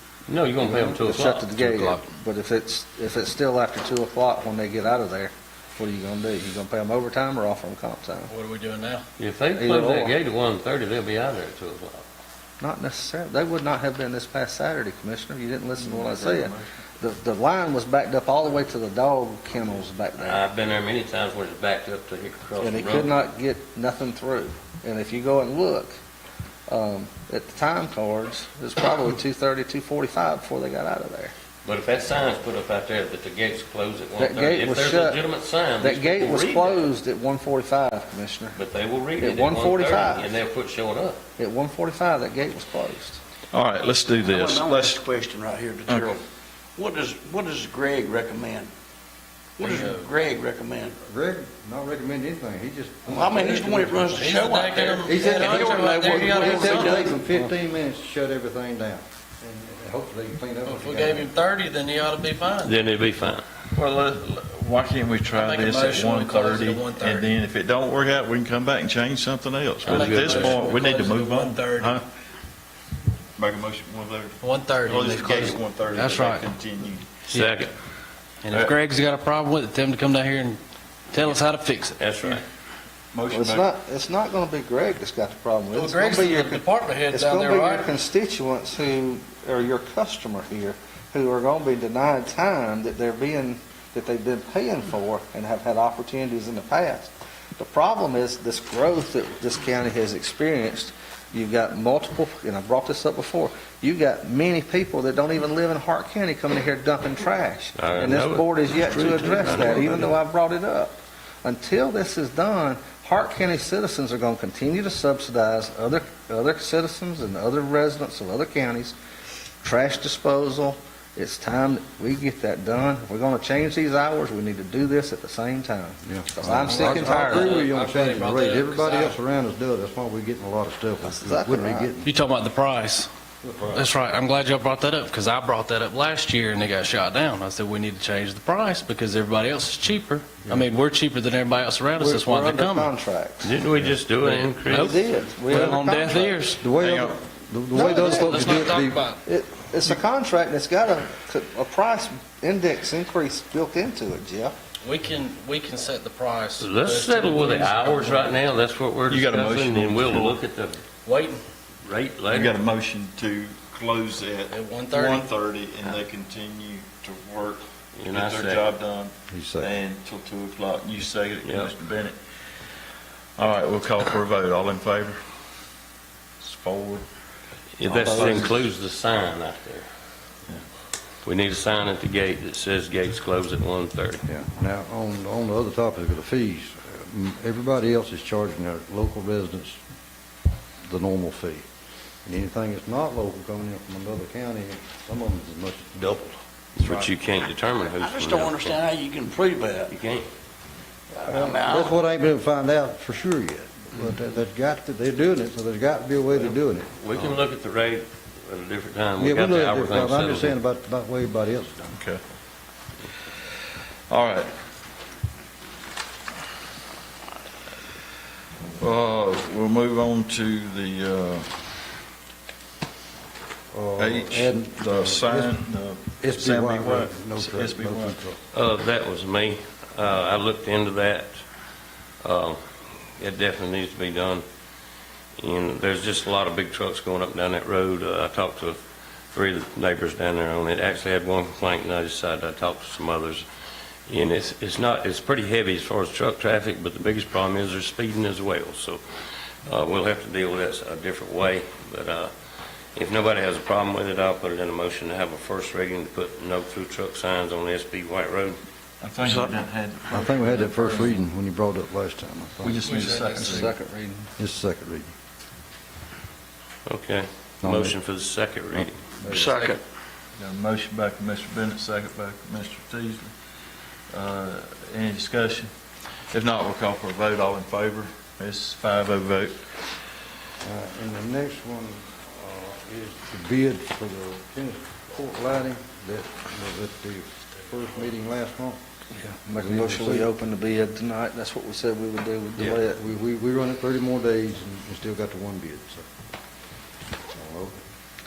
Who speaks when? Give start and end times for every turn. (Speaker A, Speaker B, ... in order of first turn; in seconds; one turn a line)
Speaker A: 0.3-1.5
Speaker B: 0.6-8.3
Speaker C: 1.6-2.0
Speaker C: 8.3-9.1
Speaker A: 9.2-12.0
Speaker B: 9.6-10.1
Speaker B: 12.6-20.5
Speaker D: 15.8-16.7
Speaker A: 20.2-23.1
Speaker B: 22.6-26.0
Speaker B: 26.7-31.3
Speaker A: 31.6-36.9
Speaker B: 34.2-35.2
Speaker B: 35.8-38.6
Speaker A: 38.5-41.2
Speaker B: 39.2-40.4
Speaker B: 41.4-43.2
Speaker D: 43.5-45.0
Speaker E: 44.2-46.2
Speaker D: 45.9-46.1
Speaker E: 46.8-48.7
Speaker E: 49.6-51.0
Speaker C: 49.6-50.1
Speaker F: 51.0-54.4
Speaker E: 53.1-57.2
Speaker C: 54.1-57.1
Speaker F: 55.0-61.3
Speaker C: 60.7-62.7
Speaker A: 62.6-63.4
Speaker D: 63.8-72.0
Speaker C: 65.3-67.4
Speaker A: 69.8-70.7
Speaker C: 69.9-72.0
Speaker D: 73.4-77.1
Speaker C: 74.4-76.5
Speaker A: 77.3-77.7
Speaker C: 77.3-77.6
Speaker C: 78.4-80.6
Speaker C: 81.1-82.0
Speaker A: 82.0-82.4
Speaker D: 83.1-83.7
Speaker B: 83.3-119.0
Speaker C: 85.8-87.9
Speaker A: 107.8-110.0
Speaker E: 109.5-109.8
Speaker B: 119.6-127.7
Speaker F: 126.1-132.1
Speaker C: 126.7-129.2
Speaker B: 131.1-131.9
Speaker C: 132.1-133.1
Speaker F: 133.4-133.9
Speaker C: 133.7-142.9
Speaker B: 142.0-143.6
Speaker A: 143.4-145.0
Speaker B: 144.3-146.4
Speaker C: 144.7-146.6
Speaker F: 146.6-149.0
Speaker D: 146.7-147.2
Speaker B: 147.7-148.7
Speaker C: 147.8-149.2
Speaker B: 149.2-154.6
Speaker C: 154.8-158.4
Speaker A: 156.6-160.8
Speaker D: 159.1-160.4
Speaker C: 161.1-161.4
Speaker A: 161.8-162.6
Speaker D: 162.3-172.2
Speaker C: 164.5-165.3
Speaker A: 168.0-168.7
Speaker F: 169.3-169.8
Speaker A: 171.4-171.7
Speaker D: 173.4-175.2
Speaker D: 176.4-177.1
Speaker A: 177.8-179.9
Speaker D: 177.8-178.7
Speaker A: 181.2-184.2
Speaker F: 184.3-189.8
Speaker F: 190.9-191.7
Speaker F: 192.2-197.1
Speaker A: 196.8-198.8
Speaker E: 197.8-199.9
Speaker A: 199.9-200.3
Speaker E: 201.1-202.0
Speaker F: 201.2-207.4
Speaker A: 206.4-210.6
Speaker F: 209.2-212.0
Speaker D: 212.0-212.2
Speaker D: 214.1-214.5
Speaker D: 218.8-221.5
Speaker F: 223.7-225.6
Speaker D: 224.0-228.2
Speaker F: 226.2-228.4
Speaker A: 228.5-231.3
Speaker A: 232.2-232.6
Speaker A: 233.2-234.4
Speaker A: 235.4-238.8
Speaker A: 239.3-243.4
Speaker A: 244.1-249.0
Speaker A: 249.7-252.3
Speaker A: 252.9-258.6
Speaker D: 259.0-261.2
Speaker E: 259.2-259.6
Speaker F: 260.1-262.8
Speaker D: 262.6-263.7
Speaker C: 262.8-263.7
Speaker B: 262.9-264.3
Speaker F: 264.4-265.1
Speaker A: 266.9-269.5
Speaker F: 267.6-268.0
Speaker F: 268.7-269.6
Speaker E: 269.3-269.8
Speaker D: 270.4-273.3
Speaker D: 274.1-275.7
Speaker D: 276.3-279.6
Speaker F: 280.6-288.8
Speaker B: 289.1-293.0
Speaker F: 289.6-290.3
Speaker F: 292.6-296.1
Speaker F: 297.4-297.8